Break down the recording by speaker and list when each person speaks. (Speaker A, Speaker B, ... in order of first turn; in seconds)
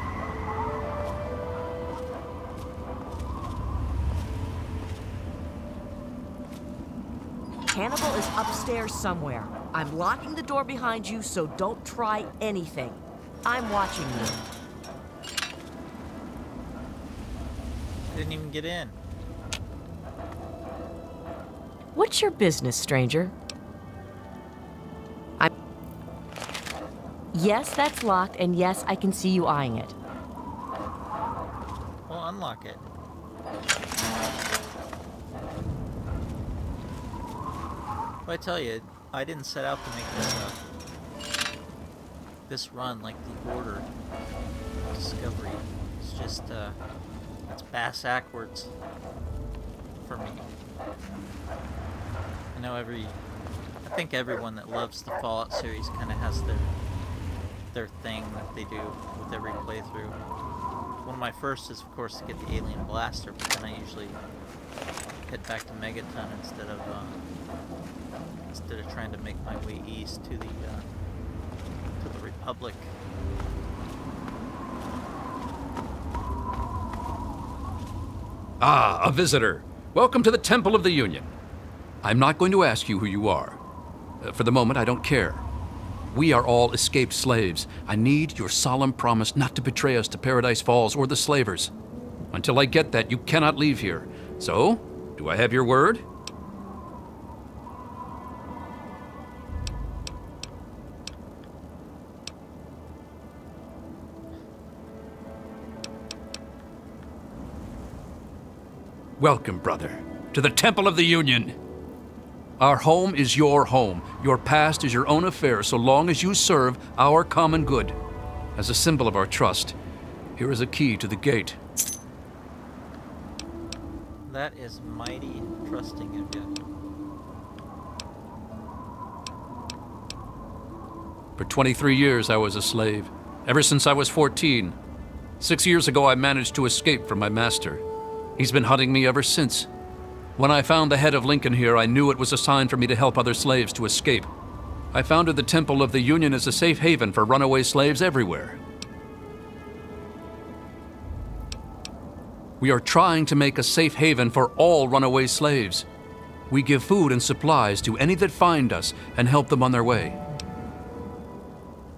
Speaker A: 7.7-14.4, 21.9-23.3, 27.3-29.9
Speaker B: 18.1-19.0, 32.1-32.9, 38.2-40.6, 42.5-43.9, 44.9-46.8, 47.5-48.7, 50.0-50.5, 52.5-53.2, 53.8-56.7, 57.7-60.2, 61.0-64.2, 65.3-67.2, 68.5-70.9, 72.0-72.9, 124.2-126.5
Speaker C: 78.6-81.3, 82.0-83.6, 84.2-85.4, 86.1-91.7, 92.3-96.0, 109.2-111.5, 112.6-117.9, 118.5-119.8, 120.3-121.6, 131.4-134.7, 135.4-137.8, 138.4-139.7, 140.4-144.3, 144.9-148.6, 152.6-155.8, 156.5-160.2